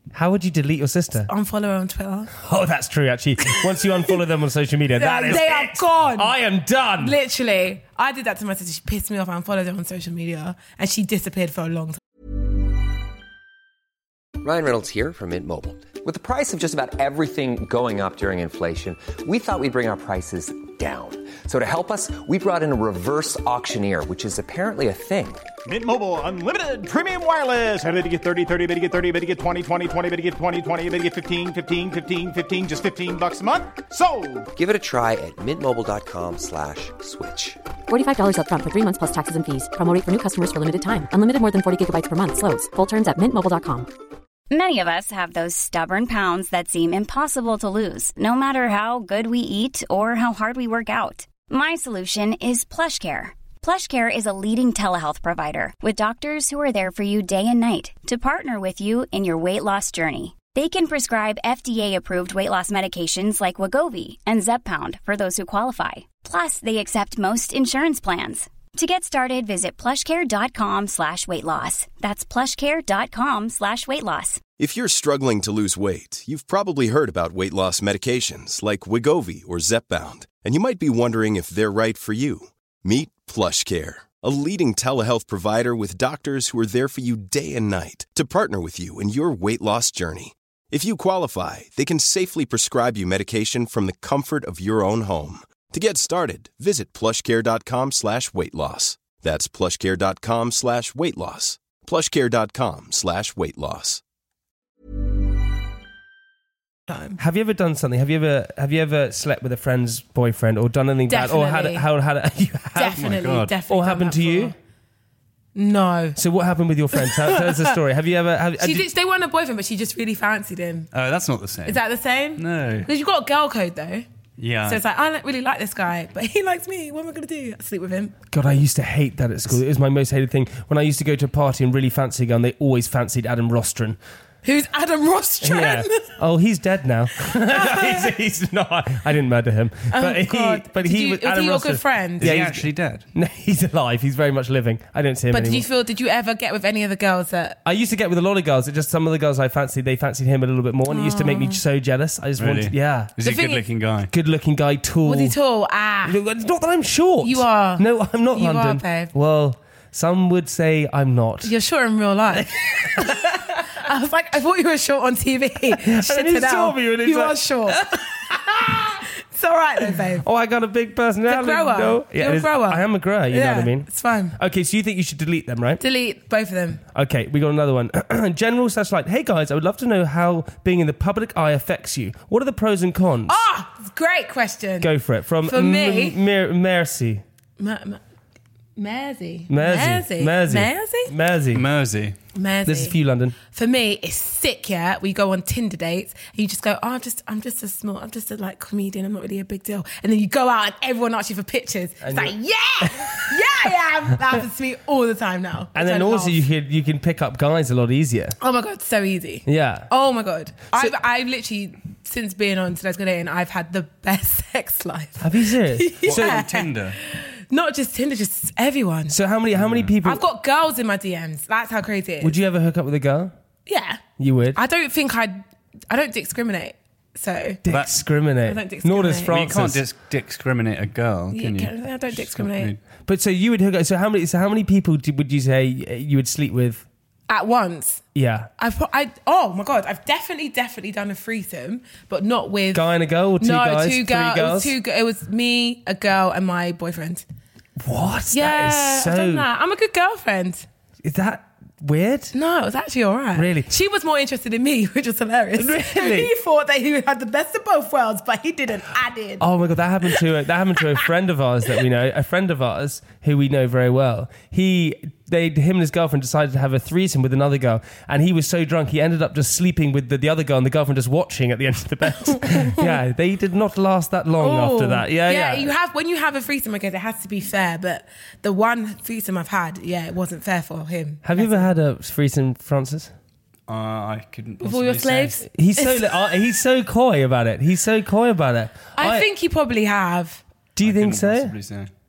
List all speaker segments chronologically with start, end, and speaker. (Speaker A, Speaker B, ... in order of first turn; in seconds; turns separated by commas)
Speaker A: 0.1-1.3, Speaker B: 1.3-2.3, Speaker A: 2.3-7.2, Speaker B: 5.0-6.3, Speaker B: 7.0-12.0, Speaker C: 14.4-25.5, Speaker D: 25.6-34.5, Speaker C: 34.5-37.6, Speaker E: 37.9-43.9, Speaker F: 44.5-74.4, Speaker G: 74.6-104.0, Speaker B: 106.9-107.2, Speaker A: 107.2-113.1, Speaker B: 111.1-111.9, Speaker B: 112.8-114.5, Speaker H: 113.0-113.5, Speaker A: 113.7-114.5, Speaker B: 115.5-116.2, Speaker A: 116.2-118.8, Speaker B: 117.0-117.7, Speaker B: 118.6-120.9, Speaker H: 120.9-121.8, Speaker B: 121.6-124.0, Speaker H: 122.3-122.9, Speaker H: 124.4-124.8, Speaker B: 124.6-128.1, Speaker A: 128.3-134.0, Speaker B: 134.4-136.1, Speaker A: 135.4-145.7, Speaker B: 137.5-137.9, Speaker B: 139.9-142.3, Speaker H: 142.2-143.0, Speaker B: 145.3-147.6, Speaker A: 147.6-153.1, Speaker B: 150.9-151.6, Speaker H: 152.4-154.1, Speaker B: 153.2-153.6, Speaker A: 154.1-155.3, Speaker B: 155.0-156.2, Speaker A: 156.0-161.5, Speaker B: 157.2-159.1, Speaker B: 161.4-170.2, Speaker A: 162.4-163.3, Speaker A: 165.7-168.8, Speaker A: 170.2-175.8, Speaker B: 171.3-174.3, Speaker B: 175.8-176.8, Speaker A: 176.9-183.4, Speaker B: 183.3-184.9, Speaker A: 184.8-187.2, Speaker B: 185.4-186.2, Speaker B: 187.6-188.0, Speaker B: 188.8-191.1, Speaker A: 189.5-191.6, Speaker H: 191.5-192.1, Speaker B: 192.3-206.4, Speaker A: 192.7-193.3, Speaker A: 202.0-203.4, Speaker A: 205.7-208.3, Speaker B: 208.4-219.2, Speaker A: 209.4-209.9, Speaker A: 215.2-216.4, Speaker H: 216.0-217.0, Speaker A: 219.1-220.2, Speaker H: 219.6-219.9, Speaker B: 220.0-222.3, Speaker A: 222.2-223.3, Speaker B: 223.7-224.0, Speaker A: 224.2-224.6, Speaker B: 224.5-227.6, Speaker A: 227.7-229.8, Speaker B: 228.4-229.4, Speaker H: 229.3-232.8, Speaker B: 231.3-232.7, Speaker A: 233.1-236.8, Speaker B: 237.3-238.0, Speaker A: 238.1-238.5, Speaker B: 238.6-242.9, Speaker A: 242.7-244.7, Speaker B: 243.4-247.2, Speaker A: 247.8-249.5, Speaker B: 248.3-250.7, Speaker A: 251.0-252.3, Speaker B: 252.3-259.4, Speaker A: 253.3-253.7, Speaker A: 255.6-256.3, Speaker A: 259.4-275.7, Speaker B: 272.2-272.9, Speaker B: 274.4-281.6, Speaker A: 281.2-283.1, Speaker H: 283.7-285.4, Speaker B: 284.6-286.0, Speaker A: 285.5-289.3, Speaker B: 288.9-290.4, Speaker A: 290.8-291.5, Speaker H: 290.8-291.9